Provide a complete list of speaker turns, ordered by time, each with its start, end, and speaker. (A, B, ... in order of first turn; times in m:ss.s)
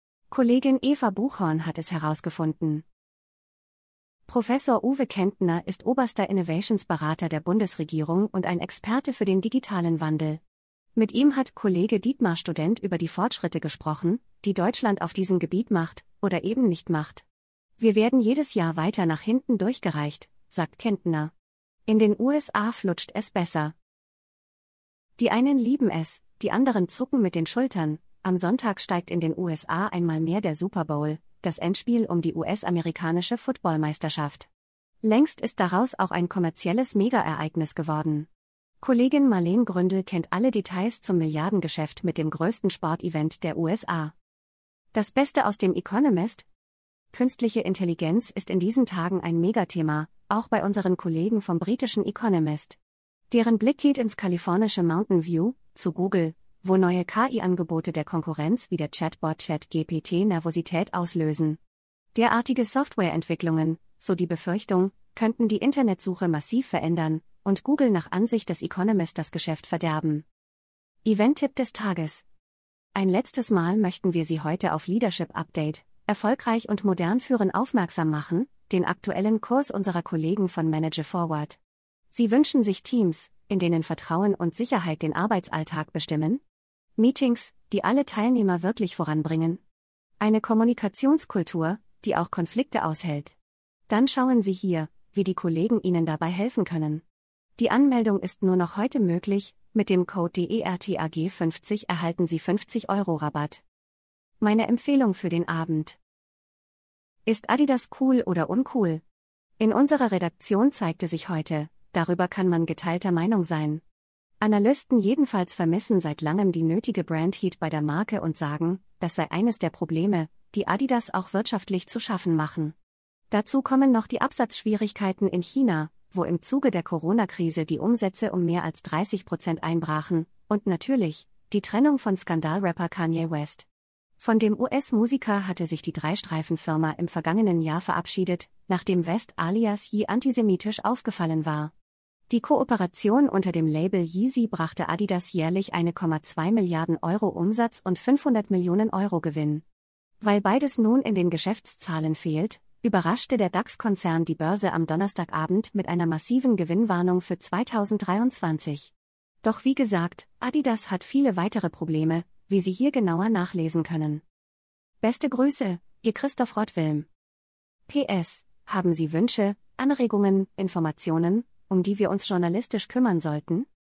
0:00.3-0:02.8 A
0:04.3-0:10.4 A
0:11.0-0:17.2 A
0:17.8-0:21.3 A
0:21.9-0:23.8 A
0:25.2-0:34.5 A
0:35.0-0:38.3 A
0:38.8-0:44.1 A
0:44.9-0:46.5 A
0:47.1-0:52.8 A
0:53.3-1:01.6 A
1:02.1-1:10.2 A
1:11.0-1:12.2 A
1:13.0-1:21.6 A
1:22.1-1:26.4 A
1:27.0-1:29.6 A
1:30.2-1:33.4 A
1:33.9-1:37.0 A
1:37.6-1:43.6 A
1:44.4-1:46.0 A
1:47.3-1:49.0 A
1:49.6-1:53.8 A
1:54.4-2:02.8 A
2:03.3-2:13.7 A
2:14.2-2:21.7 A
2:22.3-2:29.6 A
2:30.2-2:38.9 A
2:39.4-2:44.2 A
2:45.0-2:47.1 A
2:47.9-2:53.7 A